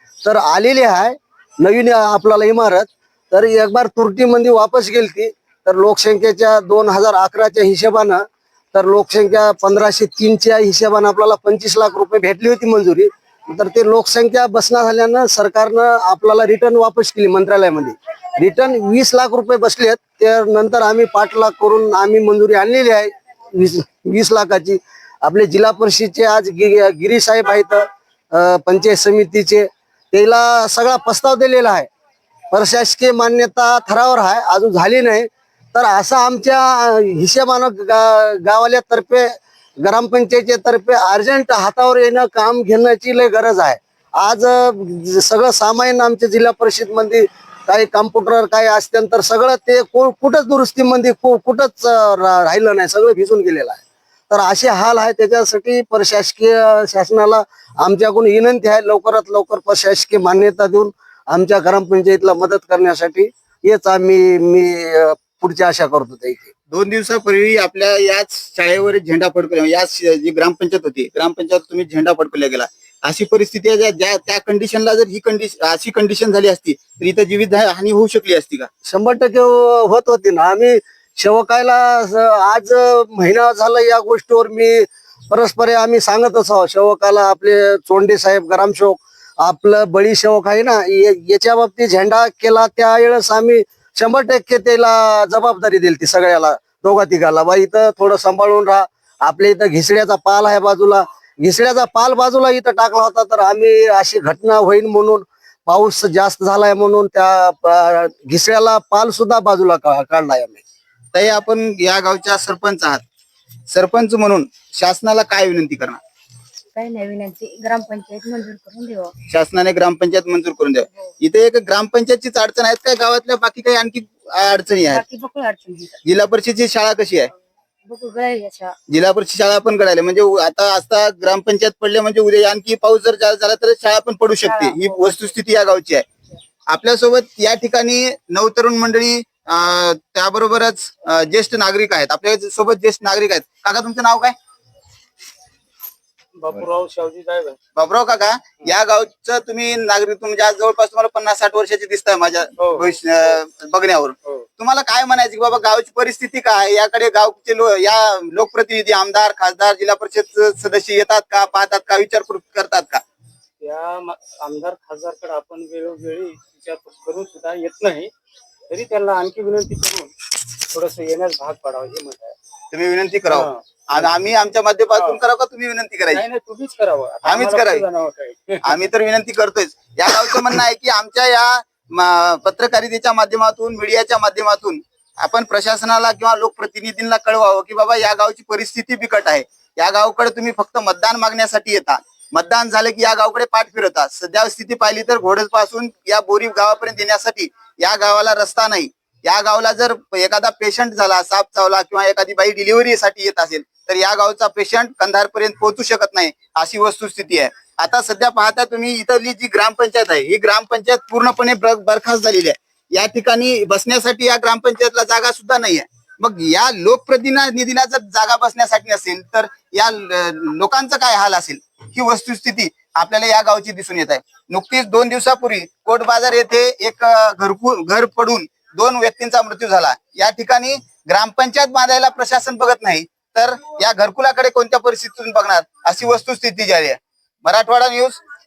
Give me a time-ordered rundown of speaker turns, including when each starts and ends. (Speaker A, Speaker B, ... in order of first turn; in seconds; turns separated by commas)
Speaker A: 0.2-31.9, Speaker A: 32.5-66.5, Speaker B: 66.7-78.7, Speaker A: 78.8-110.6, Speaker B: 111.1-113.0, Speaker B: 113.7-116.0, Speaker C: 116.7-119.1, Speaker B: 119.3-125.0, Speaker C: 124.9-126.0, Speaker B: 126.0-127.3, Speaker C: 127.8-128.8, Speaker B: 128.9-136.0, Speaker C: 134.3-135.4, Speaker B: 136.7-144.3, Speaker D: 146.4-147.6, Speaker B: 147.8-163.0, Speaker D: 152.6-153.3, Speaker D: 163.6-168.1, Speaker D: 168.7-172.3, Speaker B: 172.7-176.2, Speaker D: 173.3-174.1, Speaker D: 174.9-175.2, Speaker D: 176.1-178.8, Speaker B: 177.2-177.8, Speaker B: 178.6-238.2